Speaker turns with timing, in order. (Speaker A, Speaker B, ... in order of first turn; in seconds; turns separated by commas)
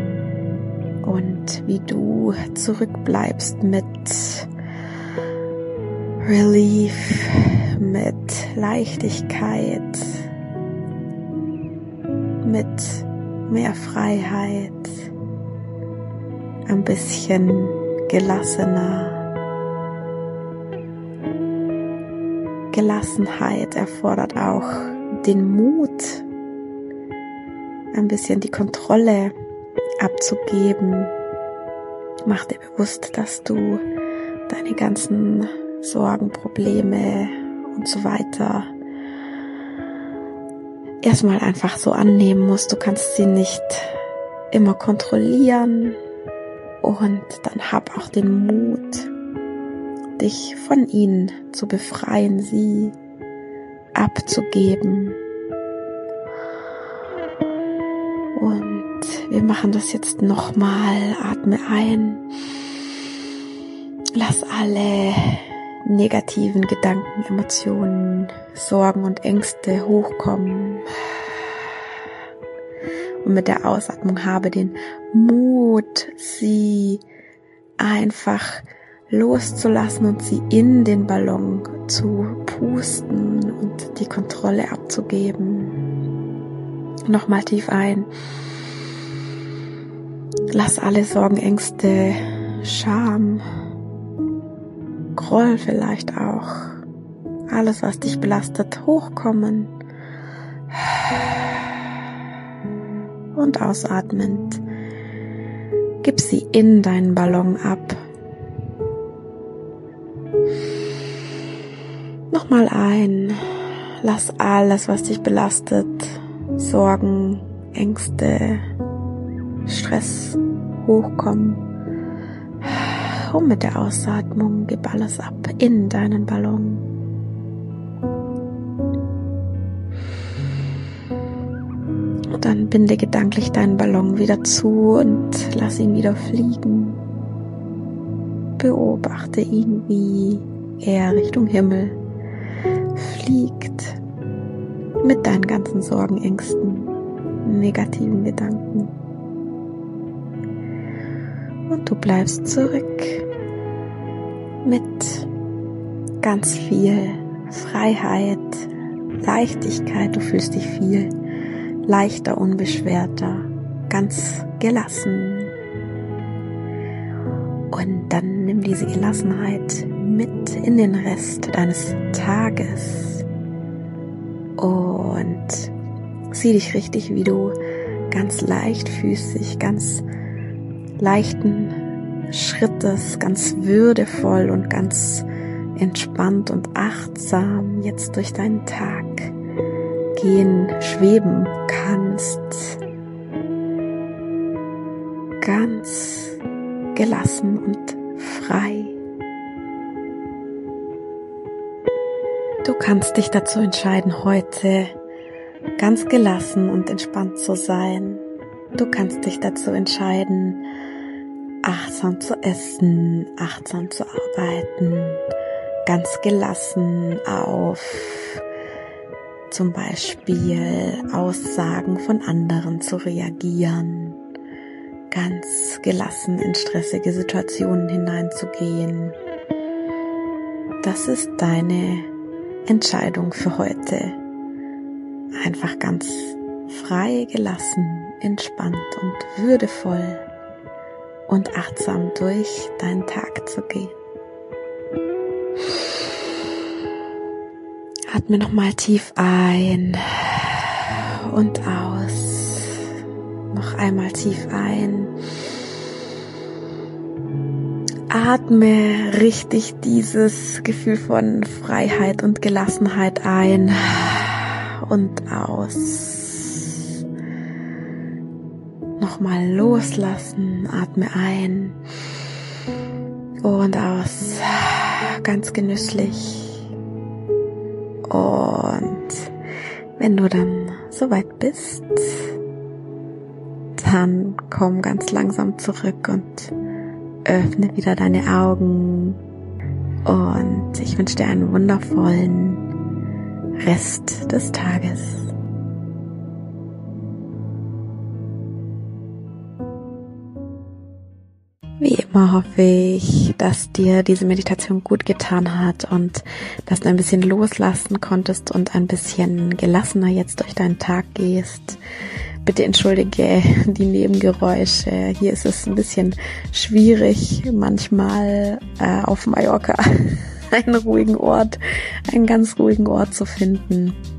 Speaker A: 1.0-4.5, Speaker A: 6.2-10.3, Speaker A: 12.4-15.1, Speaker A: 16.7-19.2, Speaker A: 22.7-26.2, Speaker A: 27.9-29.3, Speaker A: 30.0-31.1, Speaker A: 32.2-33.8, Speaker A: 34.5-38.7, Speaker A: 41.0-44.0, Speaker A: 44.5-46.0, Speaker A: 46.8-49.1, Speaker A: 50.2-53.0, Speaker A: 54.0-55.2, Speaker A: 58.3-62.2, Speaker A: 64.1-71.0, Speaker A: 73.2-77.0, Speaker A: 77.8-85.8, Speaker A: 87.1-88.1, Speaker A: 90.5-93.4, Speaker A: 95.1-96.8, Speaker A: 97.5-99.7, Speaker A: 100.7-101.6, Speaker A: 103.3-104.6, Speaker A: 106.0-108.0, Speaker A: 112.3-118.6, Speaker A: 119.7-121.6, Speaker A: 122.6-126.8, Speaker A: 132.4-137.0, Speaker A: 138.6-142.0, Speaker A: 142.9-144.0, Speaker A: 145.0-146.9, Speaker A: 147.4-148.9, Speaker A: 151.7-153.3, Speaker A: 154.6-155.3, Speaker A: 156.2-158.7, Speaker A: 159.2-161.1, Speaker A: 161.8-165.5, Speaker A: 167.7-173.2, Speaker A: 174.6-175.7, Speaker A: 176.3-177.5, Speaker A: 178.1-180.0, Speaker A: 181.0-181.8, Speaker A: 182.3-189.3, Speaker A: 190.2-192.8, Speaker A: 195.4-196.4, Speaker A: 196.9-199.0, Speaker A: 202.6-204.9, Speaker A: 205.8-208.2, Speaker A: 208.8-210.6, Speaker A: 211.6-215.2, Speaker A: 215.8-218.4, Speaker A: 219.5-224.2, Speaker A: 225.1-229.2, Speaker A: 230.8-232.1, Speaker A: 232.7-234.2, Speaker A: 235.4-240.2, Speaker A: 241.3-243.9, Speaker A: 248.1-252.9, Speaker A: 253.5-255.1, Speaker A: 258.1-266.9, Speaker A: 269.0-271.8, Speaker A: 273.4-276.7, Speaker A: 278.1-279.3, Speaker A: 280.0-282.3, Speaker A: 283.8-286.5, Speaker A: 287.2-289.2, Speaker A: 290.1-292.6, Speaker A: 293.6-295.3, Speaker A: 301.8-311.8, Speaker A: 312.4-324.0